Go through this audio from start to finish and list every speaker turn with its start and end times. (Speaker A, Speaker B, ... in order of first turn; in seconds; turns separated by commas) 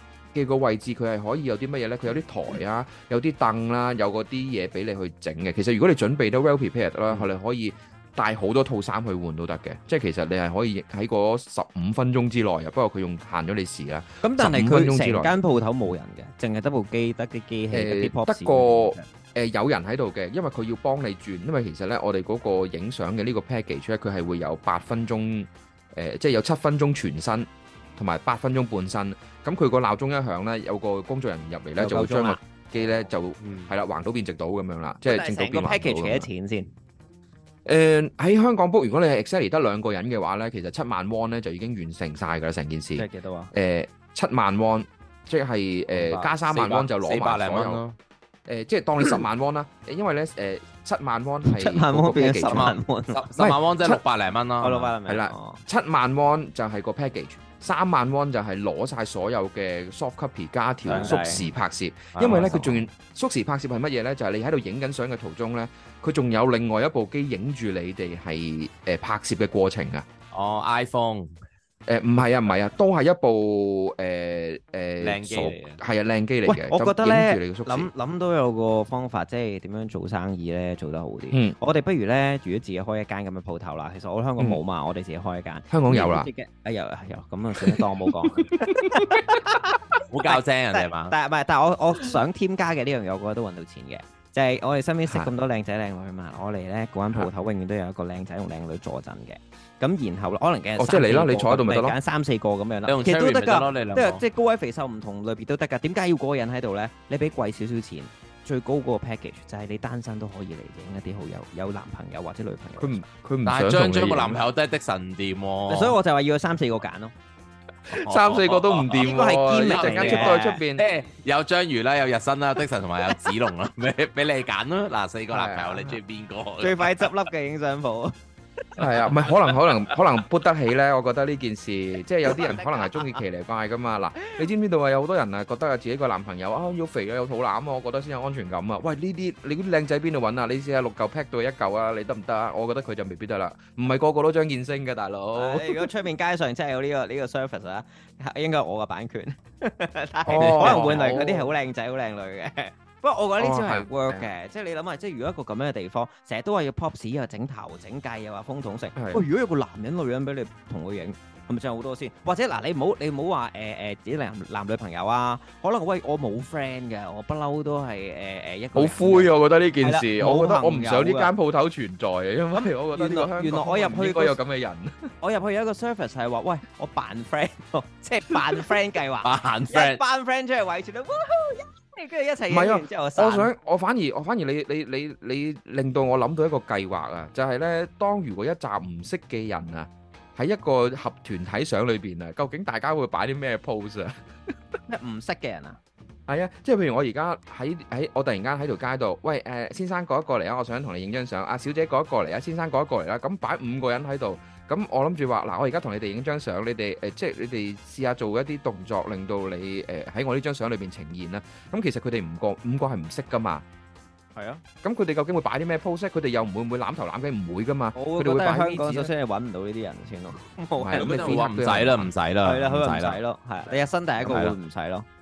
Speaker A: 0.3-15.3, Speaker B: 14.2-19.1, Speaker A: 17.7-36.3, Speaker B: 31.8-32.4, Speaker C: 33.4-33.7, Speaker B: 35.0-36.7, Speaker A: 37.6-47.8, Speaker B: 43.0-43.5, Speaker B: 45.9-46.3, Speaker C: 46.5-47.9, Speaker A: 48.5-52.8, Speaker B: 51.4-53.2, Speaker C: 52.4-54.9, Speaker A: 53.4-54.0, Speaker B: 54.6-55.6, Speaker A: 55.0-70.0, Speaker B: 60.9-61.5, Speaker C: 62.1-62.6, Speaker B: 62.2-62.8, Speaker C: 70.3-71.3, Speaker A: 71.9-77.9, Speaker C: 75.0-75.8, Speaker B: 76.5-89.7, Speaker A: 85.7-86.3, Speaker A: 88.3-89.2, Speaker C: 90.1-91.1, Speaker B: 90.2-113.0, Speaker A: 100.8-102.0, Speaker C: 102.9-104.2, Speaker A: 112.8-114.4, Speaker C: 113.4-116.0, Speaker B: 115.7-117.1, Speaker A: 117.9-120.8, Speaker C: 117.9-127.1, Speaker B: 119.0-120.6, Speaker A: 125.3-126.0, Speaker B: 126.6-128.1, Speaker A: 128.8-145.9, Speaker B: 132.3-133.1, Speaker B: 145.3-171.3, Speaker A: 150.2-151.5, Speaker C: 150.3-151.1, Speaker A: 153.4-154.3, Speaker A: 158.9-159.2, Speaker A: 168.7-175.1, Speaker B: 172.5-174.4, Speaker B: 175.2-183.5, Speaker C: 179.2-180.0, Speaker A: 182.5-194.5, Speaker B: 194.9-195.8, Speaker A: 196.3-213.6, Speaker B: 214.3-214.6, Speaker A: 214.8-219.1, Speaker B: 217.9-221.4, Speaker A: 220.8-222.1, Speaker C: 220.9-223.2, Speaker B: 222.4-225.0, Speaker C: 224.2-224.6